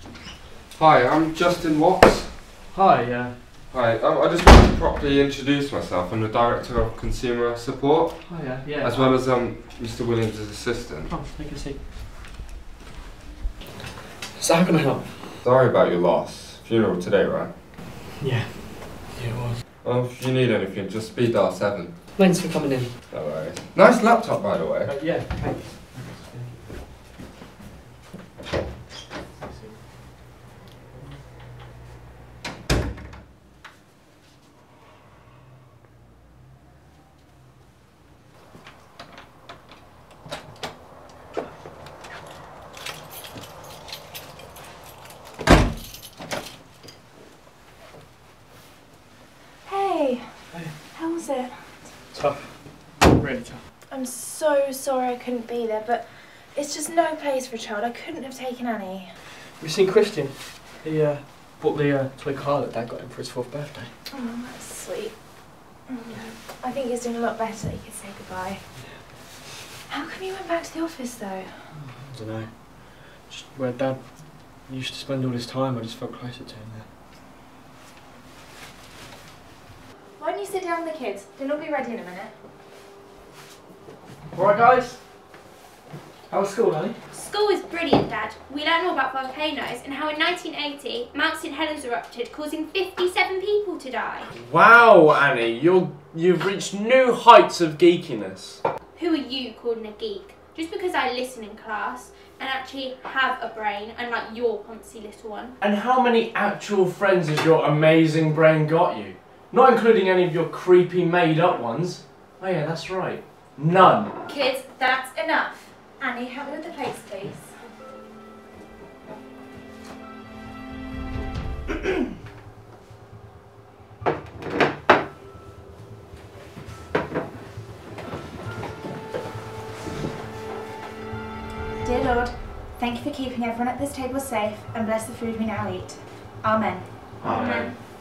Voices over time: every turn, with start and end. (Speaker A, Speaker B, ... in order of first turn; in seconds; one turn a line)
Speaker A: 0.7-2.5
Speaker B: 2.7-3.4
Speaker A: 3.7-11.1
Speaker B: 8.2-9.2
Speaker B: 11.1-11.8
Speaker B: 14.3-15.4
Speaker A: 15.4-17.6
Speaker B: 18.2-19.6
Speaker A: 19.8-22.1
Speaker B: 22.2-22.9
Speaker A: 23.1-25.0
Speaker B: 24.8-26.5
Speaker B: 29.4-29.8
Speaker C: 49.7-50.4
Speaker C: 50.9-51.8
Speaker B: 52.1-53.6
Speaker C: 53.9-59.1
Speaker B: 59.6-63.9
Speaker C: 64.1-65.2
Speaker C: 65.9-68.7
Speaker C: 69.9-71.7
Speaker B: 71.8-76.9
Speaker C: 80.2-82.3
Speaker B: 84.3-85.0
Speaker B: 86.3-87.0
Speaker D: 87.1-94.3
Speaker E: 94.3-98.6
Speaker D: 99.0-105.5
Speaker E: 105.6-114.1
Speaker C: 114.2-117.5
Speaker C: 131.8-136.9
Speaker E: 137.2-137.7
Speaker D: 137.2-137.7